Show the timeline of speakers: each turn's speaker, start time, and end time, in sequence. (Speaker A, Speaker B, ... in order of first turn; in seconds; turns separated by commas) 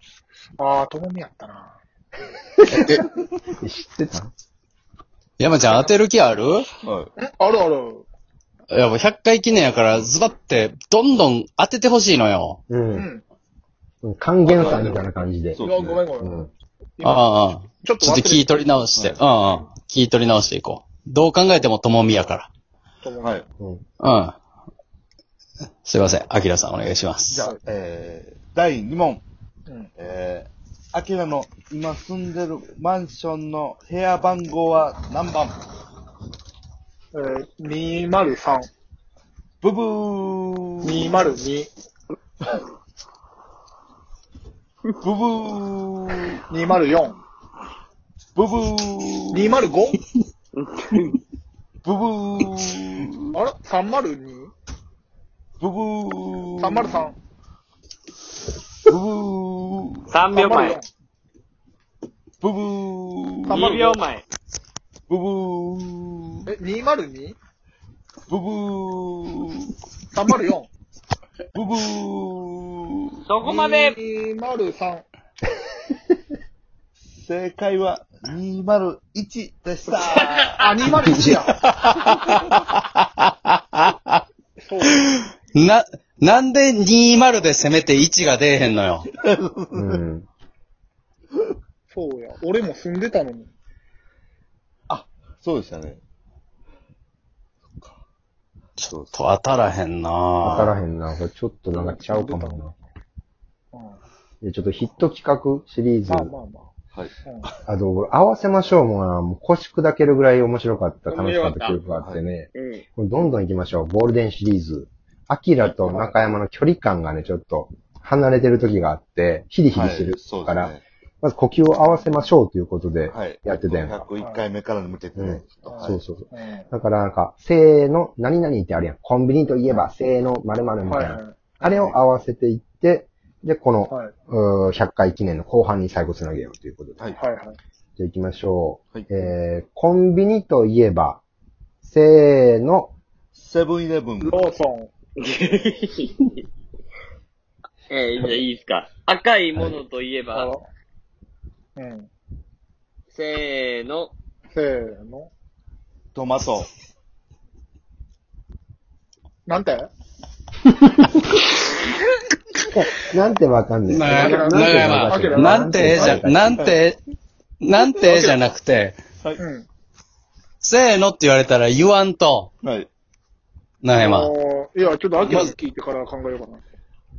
Speaker A: 0.6-1.8, Speaker B: 2.7-3.0, Speaker C: 2.7-3.0, Speaker C: 3.6-4.3, Speaker B: 5.4-6.7, Speaker D: 6.8-7.1, Speaker A: 7.2-8.0, Speaker B: 8.7-12.6, Speaker C: 12.7-13.1, Speaker A: 12.9-13.2, Speaker C: 14.0-15.6, Speaker A: 14.5-15.0, Speaker D: 15.5-16.0, Speaker A: 15.6-16.5, Speaker C: 16.2-16.5, Speaker A: 17.0-17.3, Speaker B: 17.0-22.5, Speaker A: 17.8-18.6, Speaker A: 23.0-23.4, Speaker B: 24.0-24.4, Speaker B: 25.8-27.4, Speaker D: 27.3-29.2, Speaker D: 29.9-35.6, Speaker A: 37.1-38.7, Speaker D: 39.6-41.3, Speaker A: 40.8-41.7, Speaker D: 45.0-46.4, Speaker A: 46.5-47.2, Speaker D: 48.4-49.7, Speaker A: 49.3-50.0, Speaker E: 50.5-51.2, Speaker D: 51.8-53.4, Speaker A: 53.3-54.5, Speaker D: 55.6-57.1, Speaker A: 56.6-57.1, Speaker D: 58.9-60.1, Speaker E: 60.1-60.8, Speaker A: 60.3-60.9, Speaker D: 62.4-63.8, Speaker A: 63.5-64.0, Speaker E: 63.5-64.2, Speaker D: 65.1-66.5, Speaker A: 66.5-67.3, Speaker D: 68.3-69.7, Speaker A: 70.1-70.7, Speaker D: 71.5-73.2, Speaker E: 73.2-74.0, Speaker A: 73.4-75.0, Speaker D: 77.1-80.7, Speaker A: 80.6-81.6, Speaker B: 81.6-84.2, Speaker A: 84.6-85.1, Speaker B: 84.8-89.1, Speaker D: 89.2-90.0, Speaker C: 89.7-90.3, Speaker A: 91.9-93.5, Speaker D: 94.9-96.0, Speaker D: 97.7-98.0, Speaker D: 98.8-99.2, Speaker B: 98.8-100.8, Speaker C: 100.4-102.8, Speaker A: 101.7-102.6, Speaker A: 103.7-104.0, Speaker C: 104.4-106.3, Speaker A: 106.1-106.7, Speaker A: 107.2-107.5, Speaker C: 107.6-124.0, Speaker E: 111.1-111.8, Speaker E: 112.5-112.8, Speaker A: 115.7-116.1, Speaker D: 119.7-120.8, Speaker D: 123.1-126.0, Speaker C: 125.2-137.1, Speaker A: 125.7-126.7, Speaker A: 130.8-131.8, Speaker A: 137.2-137.6, Speaker C: 138.0-141.2, Speaker C: 141.8-142.9, Speaker D: 143.3-144.5, Speaker A: 144.2-144.9, Speaker E: 145.2-146.3, Speaker E: 147.9-150.5, Speaker A: 150.3-150.7, Speaker A: 151.8-152.1, Speaker E: 153.1-154.1, Speaker A: 154.5-155.3, Speaker D: 156.1-156.7, Speaker A: 159.4-159.9, Speaker C: 162.7-166.7, Speaker B: 163.9-167.0, Speaker A: 164.1-165.7, Speaker D: 165.9-166.8, Speaker B: 167.6-168.9, Speaker A: 168.0-168.4, Speaker A: 169.4-169.7, Speaker B: 170.6-172.5, Speaker D: 172.6-172.9, Speaker B: 173.8-174.3, Speaker A: 173.9-176.6, Speaker B: 175.2-175.5